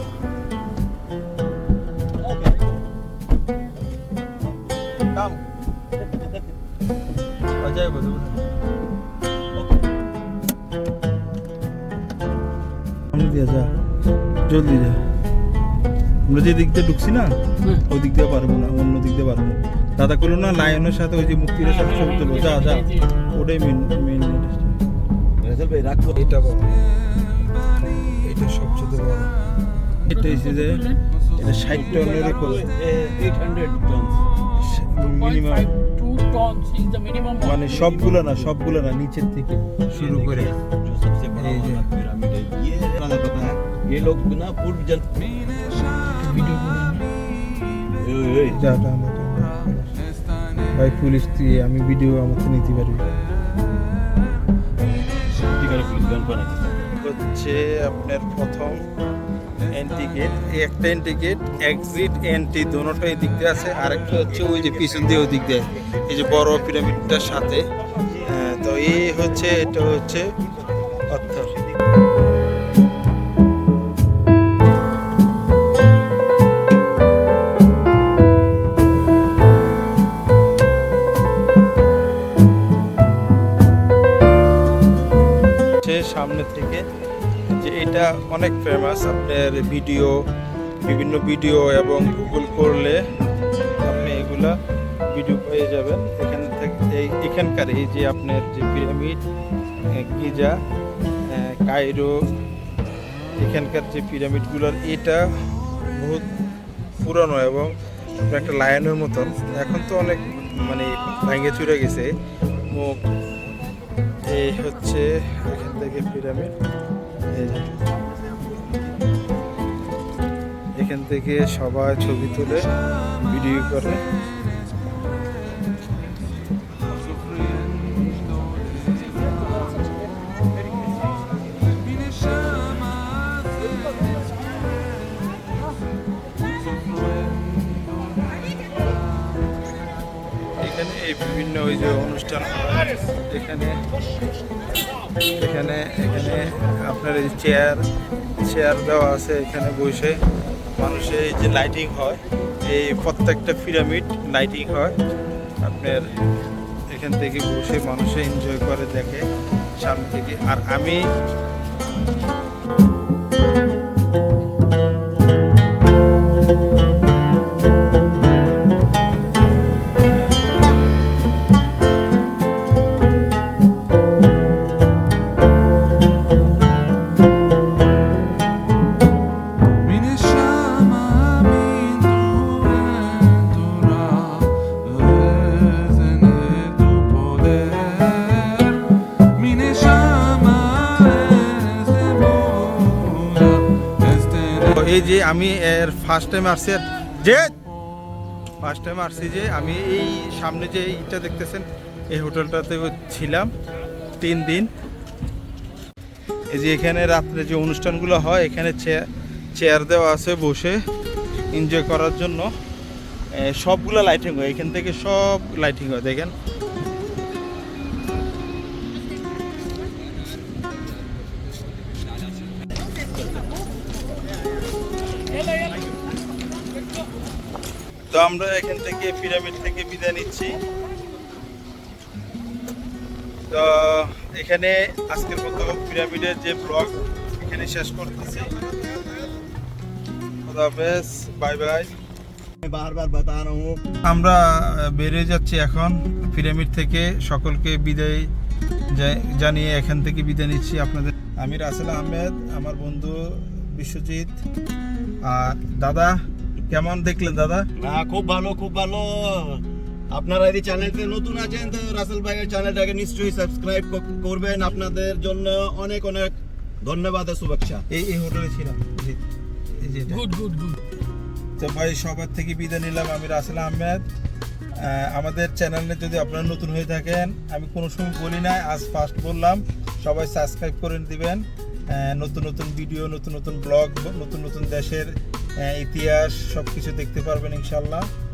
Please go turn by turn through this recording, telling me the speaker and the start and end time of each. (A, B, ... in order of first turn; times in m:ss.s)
0:02.2-0:02.8 A
0:06.0-0:06.5 A
0:07.6-0:08.4 B
0:09.5-0:09.9 A
0:13.1-0:13.7 B
0:14.5-0:15.0 B
0:16.3-0:17.3 B
0:17.9-0:24.8 B
0:21.6-0:23.0 C
0:25.4-0:26.4 A
0:26.1-0:26.7 B
0:28.3-0:29.3 B
0:30.1-0:30.8 B
0:30.1-0:31.0 C
0:31.3-0:34.2 A
0:31.4-0:32.7 B
0:34.6-0:35.7 B
0:35.0-0:37.6 C
0:37.4-0:40.5 B
0:37.6-0:38.5 A
0:39.9-0:45.2 A
0:41.4-0:41.8 B
0:46.2-0:47.0 C
0:48.0-0:48.6 A
0:48.5-0:49.9 B
0:50.7-0:53.0 B
0:55.3-0:56.7 A
0:57.0-0:58.8 B
0:59.7-1:07.6 B
1:04.1-1:06.8 A
1:08.2-1:10.3 B
1:10.4-1:11.6 A
1:11.1-1:11.5 B
1:25.8-1:26.8 B
1:27.5-1:30.2 B
1:30.8-1:33.0 B
1:33.8-1:34.5 B
1:35.1-1:39.2 B
1:39.9-1:40.6 B
1:41.2-1:42.1 B
1:43.4-1:45.2 B
1:45.9-1:46.2 B
1:47.0-1:47.7 B
1:48.2-1:52.1 B
1:52.7-1:53.0 B
1:54.3-1:56.5 B
1:57.3-1:57.7 B
1:57.6-1:59.1 A
2:00.8-2:02.7 B
2:03.2-2:04.0 B
2:20.6-2:23.8 B
2:25.3-2:27.8 B
2:28.4-2:30.2 B
2:30.8-2:34.9 B
2:35.6-2:36.0 B
2:36.9-2:39.2 B
2:39.8-2:41.0 B
3:14.4-3:17.5 B
3:18.6-3:23.5 B
3:24.2-3:24.7 B
3:26.5-3:29.0 B
3:29.6-3:30.8 B
3:31.5-3:32.5 B
3:33.3-3:36.3 B
3:45.2-3:45.9 C
3:48.1-3:50.6 B
3:53.5-3:58.5 B
3:58.5-3:59.2 A
4:00.5-4:01.9 B
4:02.6-4:03.8 A
4:04.0-4:08.3 B
4:08.9-4:14.4 B
4:15.2-4:17.6 B
4:17.8-4:27.8 A
4:27.9-4:29.2 B
4:29.8-4:30.2 B
4:30.1-4:30.8 C
4:31.6-4:34.0 B
4:34.8-4:48.1 B